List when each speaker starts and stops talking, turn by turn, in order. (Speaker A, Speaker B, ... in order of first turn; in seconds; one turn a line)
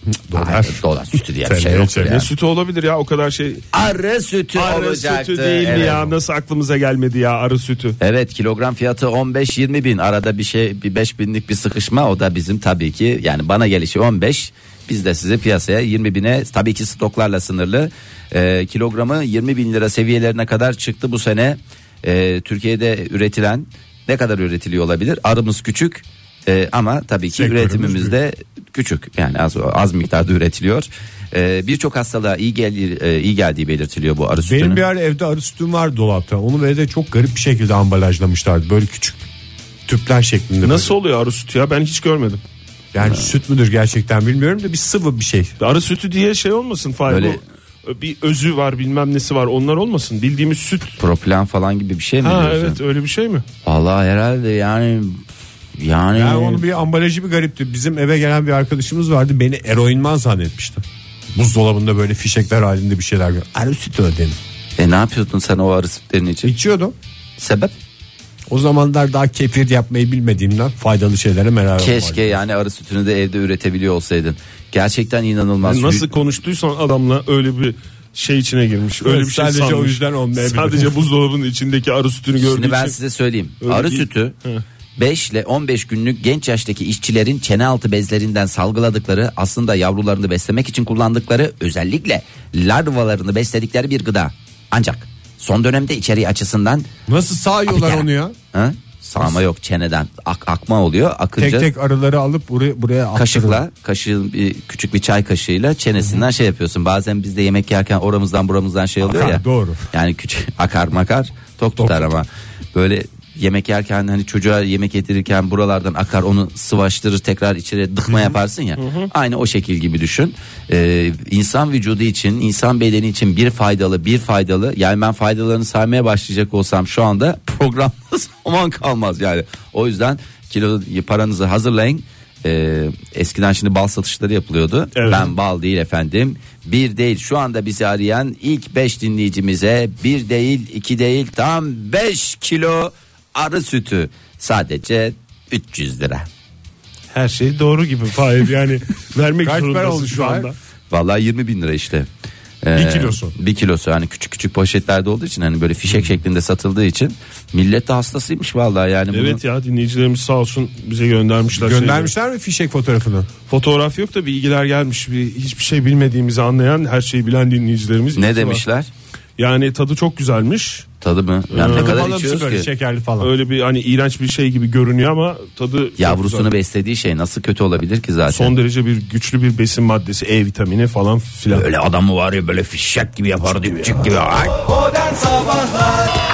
Speaker A: 0.3-2.2
Speaker B: 0.3-2.3
Speaker C: 2.0-3.8
Speaker B: 3.7-6.1
Speaker C: 4.5-8.0
Speaker B: 8.0-34.9
Speaker A: 27.3-28.2
Speaker A: 34.4-39.2
Speaker A: 39.9-40.9
Speaker C: 40.6-42.4
Speaker A: 42.9-45.5
Speaker B: 43.0-43.3
Speaker C: 45.6-50.9
Speaker B: 47.1-47.4
Speaker B: 51.0-52.8
Speaker C: 52.2-53.4
Speaker B: 53.6-55.2
Speaker B: 55.8-56.6
Speaker A: 56.1-60.8
Speaker A: 61.3-64.3
Speaker B: 64.8-66.5
Speaker A: 66.4-66.9
Speaker B: 67.4-67.7
Speaker A: 68.5-72.4
Speaker B: 71.8-76.1
Speaker C: 75.6-83.0
Speaker A: 79.0-81.0
Speaker B: 82.4-84.3
Speaker C: 83.6-84.6
Speaker B: 85.0-96.9
Speaker A: 97.1-98.3
Speaker B: 97.7-101.7
Speaker A: 101.4-103.6
Speaker B: 103.1-146.2
Speaker A: 106.0-106.3
Speaker A: 109.0-109.8
Speaker A: 111.8-112.2
Speaker A: 118.1-118.4
Speaker C: 118.8-119.1
Speaker C: 134.9-135.3
Speaker C: 147.1-150.5
Speaker A: 149.4-150.5
Speaker B: 150.9-152.1
Speaker B: 152.6-159.4
Speaker A: 152.7-153.3
Speaker C: 159.1-162.1
Speaker A: 161.6-163.3
Speaker C: 163.5-168.6
Speaker B: 168.1-168.9
Speaker C: 169.4-170.8
Speaker B: 171.0-172.7
Speaker C: 171.5-172.0
Speaker A: 171.6-173.3
Speaker C: 173.2-176.5
Speaker B: 176.0-178.5
Speaker C: 178.3-181.7
Speaker B: 181.5-184.7